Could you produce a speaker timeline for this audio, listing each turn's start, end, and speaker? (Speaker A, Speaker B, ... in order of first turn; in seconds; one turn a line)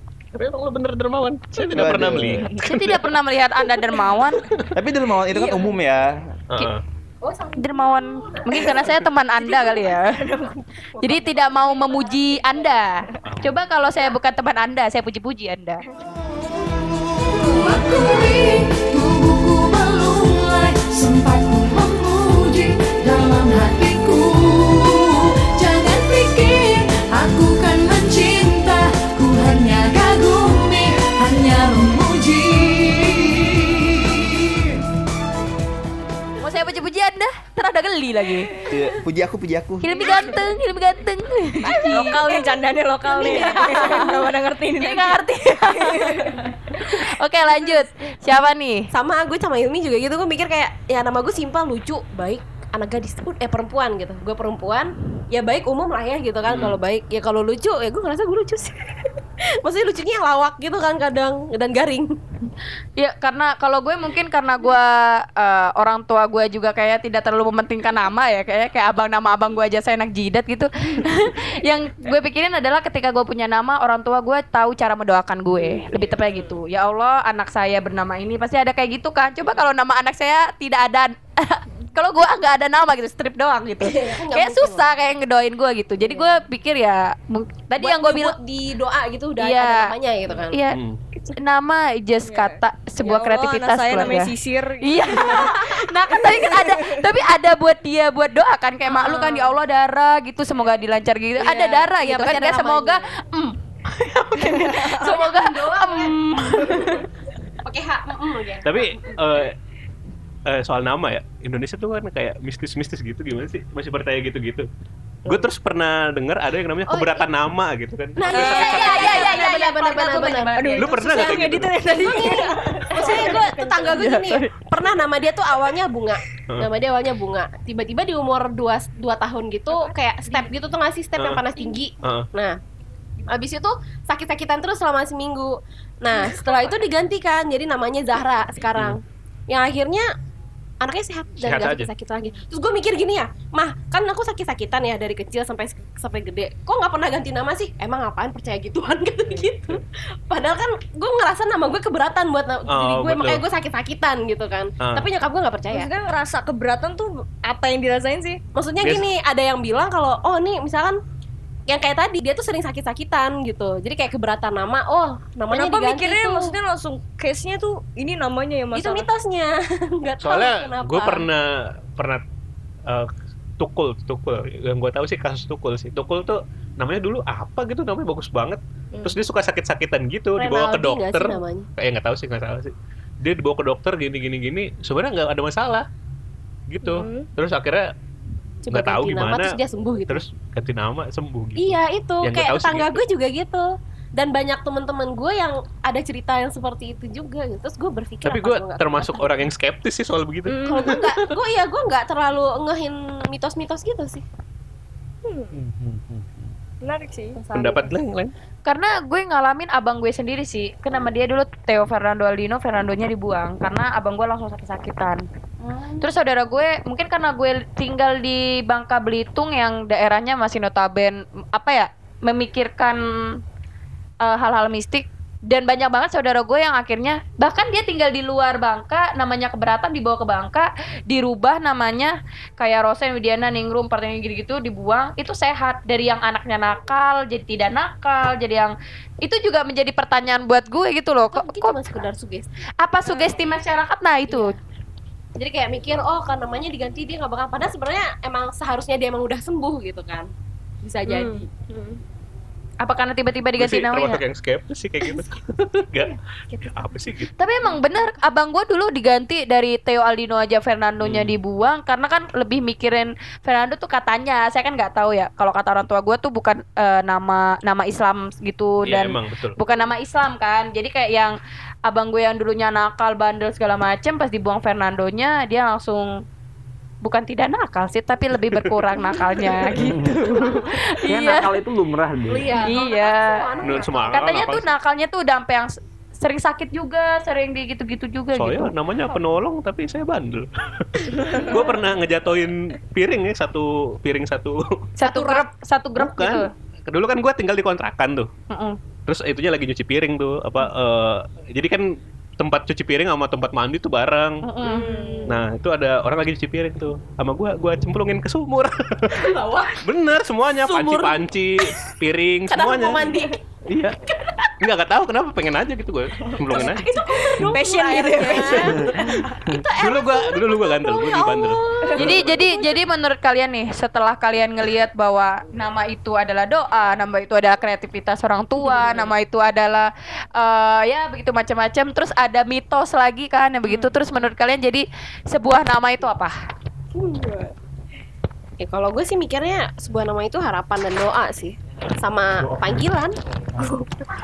Speaker A: 0.3-3.1
Speaker B: 1.7-2.5
Speaker C: 2.5-4.4
Speaker B: 4.8-6.1
Speaker A: 6.5-6.8
Speaker D: 7.2-8.9
Speaker C: 7.6-10.2
Speaker E: 9.4-11.1
Speaker C: 11.0-15.8
Speaker A: 13.2-13.6
Speaker F: 17.4-34.8
Speaker C: 36.4-38.5
Speaker B: 38.7-40.1
Speaker C: 39.8-42.2
Speaker D: 40.0-40.3
Speaker E: 41.6-45.2
Speaker D: 42.3-42.6
Speaker D: 43.1-44.2
Speaker C: 43.2-44.2
Speaker C: 44.8-48.9
Speaker E: 45.8-46.4
Speaker D: 48.9-62.1
Speaker A: 56.5-56.8
Speaker C: 63.0-88.3
Speaker E: 76.1-76.6
Speaker D: 83.8-84.9
Speaker D: 87.8-90.6
Speaker C: 89.4-89.9
Speaker C: 90.5-90.8
Speaker A: 90.7-91.0
Speaker C: 91.3-107.0
Speaker E: 92.3-96.9
Speaker E: 99.1-99.3
Speaker D: 101.4-103.2
Speaker E: 104.4-105.2
Speaker D: 105.0-107.1
Speaker D: 107.6-109.2
Speaker A: 108.6-109.6
Speaker A: 110.5-114.7
Speaker A: 115.3-119.3
Speaker D: 116.9-117.3
Speaker D: 118.2-132.6
Speaker E: 118.3-119.4
Speaker C: 118.6-120.8
Speaker E: 120.6-124.5
Speaker A: 120.8-121.8
Speaker A: 131.2-131.4
Speaker A: 132.0-132.3
Speaker D: 133.3-140.1
Speaker D: 140.8-155.9
Speaker A: 141.4-141.9
Speaker A: 152.7-153.4
Speaker A: 154.8-155.1
Speaker E: 155.7-158.4
Speaker D: 158.6-161.0
Speaker A: 158.8-159.1
Speaker D: 161.7-166.6
Speaker E: 165.5-169.1
Speaker D: 168.8-171.3
Speaker A: 170.2-172.2
Speaker A: 172.9-185.8
Speaker D: 180.4-181.7
Speaker A: 186.7-187.9
Speaker E: 186.8-187.3
Speaker A: 188.7-189.6
Speaker D: 188.7-190.3
Speaker A: 190.1-193.0
Speaker D: 191.6-199.5
Speaker A: 198.2-201.4
Speaker D: 200.5-204.2
Speaker E: 205.2-205.5
Speaker B: 205.5-206.4
Speaker E: 206.8-207.4
Speaker D: 207.4-207.9
Speaker A: 207.5-208.3
Speaker C: 208.7-215.2
Speaker D: 215.6-216.1
Speaker C: 216.0-223.4
Speaker C: 224.2-241.8
Speaker D: 241.3-242.5
Speaker C: 242.8-244.5
Speaker D: 243.1-243.3
Speaker D: 245.4-250.3
Speaker D: 250.8-252.0
Speaker C: 251.1-251.4
Speaker C: 252.8-254.2
Speaker A: 253.6-257.3
Speaker C: 257.4-271.4
Speaker A: 261.0-261.4
Speaker A: 268.8-269.6
Speaker C: 271.9-276.1
Speaker C: 277.0-281.5
Speaker B: 279.8-282.6
Speaker D: 282.3-284.5
Speaker C: 282.6-283.5
Speaker A: 283.6-284.7
Speaker C: 284.1-288.7
Speaker A: 288.4-294.7
Speaker C: 295.0-296.5
Speaker D: 295.1-295.4
Speaker A: 296.0-298.3
Speaker C: 298.5-298.8
Speaker A: 299.1-304.4
Speaker C: 304.4-305.2
Speaker E: 304.6-305.4
Speaker D: 304.7-305.0
Speaker A: 305.3-313.1
Speaker D: 309.4-309.7
Speaker D: 310.6-311.3
Speaker D: 312.5-313.4
Speaker A: 313.7-314.0
Speaker A: 314.6-316.9
Speaker D: 316.4-322.7
Speaker E: 316.6-319.1
Speaker A: 318.9-322.4
Speaker C: 322.0-336.4
Speaker D: 336.9-337.5
Speaker D: 338.6-343.1
Speaker E: 343.6-344.0